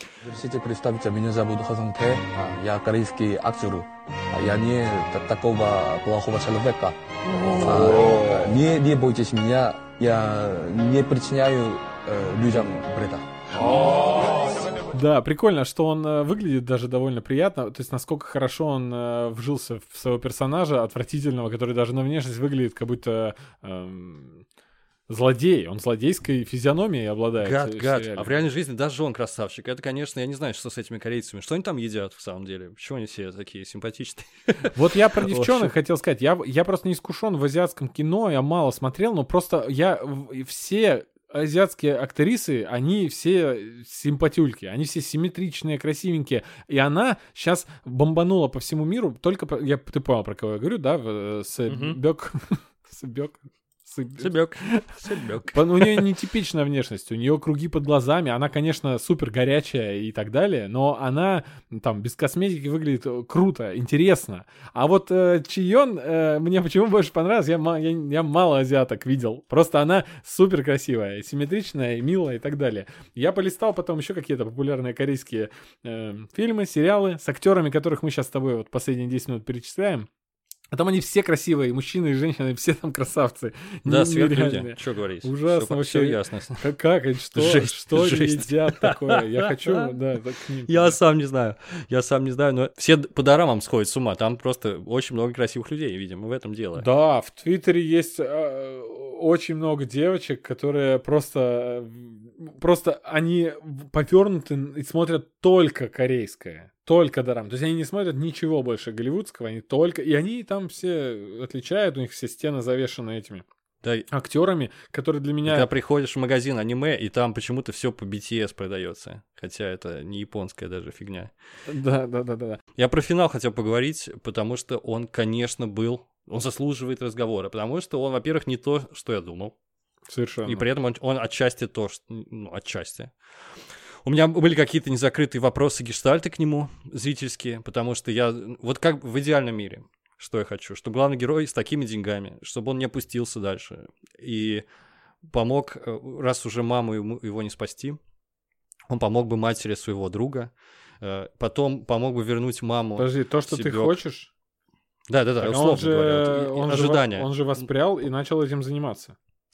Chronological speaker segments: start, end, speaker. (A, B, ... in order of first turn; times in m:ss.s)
0:00.2-0:07.0 A
0:07.5-0:14.7 A
0:14.9-0:24.4 B
0:25.1-0:28.4 B
0:27.4-0:35.7 C
0:34.7-0:54.9 B
0:51.7-0:52.0 C
0:54.2-0:56.1 C
0:55.5-1:20.1 B
1:20.7-1:31.0 B
1:23.8-1:26.6 C
1:27.3-1:29.9 C
1:30.7-1:36.9 C
1:36.8-1:53.4 B
1:53.8-1:54.1 C
1:54.1-1:55.7 B
1:55.4-2:01.3 C
2:01.7-2:02.6 B
2:02.8-2:09.5 C
2:10.1-2:10.6 B
2:10.4-2:13.1 C
2:14.0-2:24.6 C
2:25.3-2:28.0 C
2:28.9-2:33.9 C
2:33.0-2:34.3 B
2:35.1-2:37.6 C
2:35.4-2:39.1 B